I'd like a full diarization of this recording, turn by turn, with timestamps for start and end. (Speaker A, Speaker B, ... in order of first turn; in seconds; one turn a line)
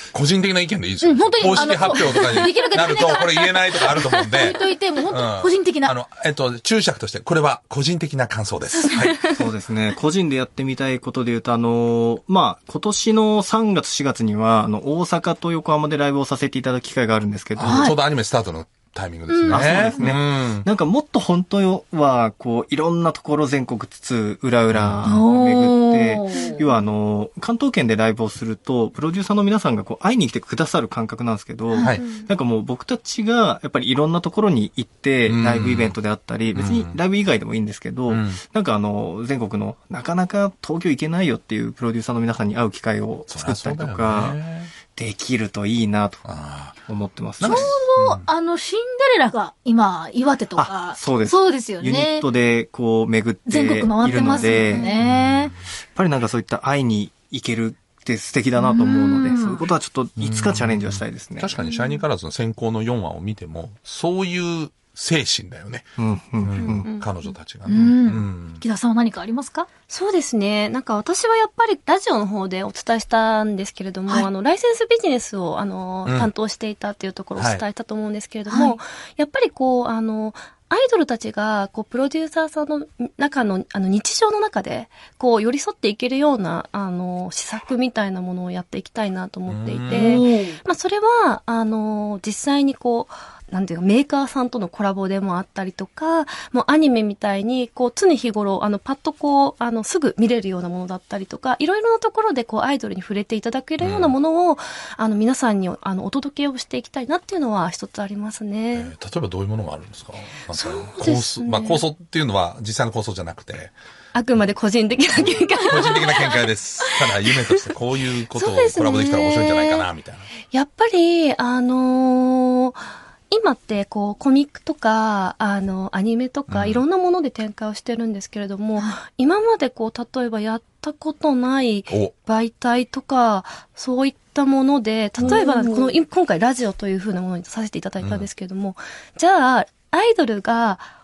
Speaker A: 0.1-9.4
Speaker B: 1.0-5.9
Speaker C: 9.3-17.9
Speaker A: 17.6-20.7
Speaker B: 17.7-18.0
Speaker B: 19.3-20.1
Speaker C: 19.5-46.3
Speaker A: 24.7-25.0
Speaker B: 25.0-26.8
Speaker D: 32.0-32.3
Speaker A: 35.3-36.0
Speaker A: 36.5-37.0
Speaker A: 38.1-38.4
Speaker A: 43.3-44.7
Speaker A: 46.2-46.8
Speaker C: 46.8-47.7
Speaker A: 47.4-48.3
Speaker B: 47.4-52.2
Speaker C: 50.6-55.0
Speaker B: 53.5-55.5
Speaker A: 55.0-55.5
Speaker C: 56.0-61.5
Speaker B: 58.6-59.7
Speaker A: 60.2-65.9
Speaker D: 61.6-62.0
Speaker C: 66.0-66.9
Speaker A: 66.4-68.6
Speaker D: 66.6-67.1
Speaker B: 67.7-69.7
Speaker D: 69.9-108.9
Speaker A: 76.1-76.3
Speaker A: 77.4-77.6
Speaker B: 78.5-78.8
Speaker A: 89.5-90.2
Speaker B: 89.9-90.6
Speaker A: 103.8-104.2
Speaker A: 108.7-113.7
Speaker D: 110.5-111.8
Speaker D: 114.1-117.1
Speaker A: 115.7-120.3
Speaker D: 118.3-119.9
Speaker D: 120.5-140.9
Speaker A: 126.5-126.8
Speaker B: 135.2-136.0
Speaker A: 138.0-138.3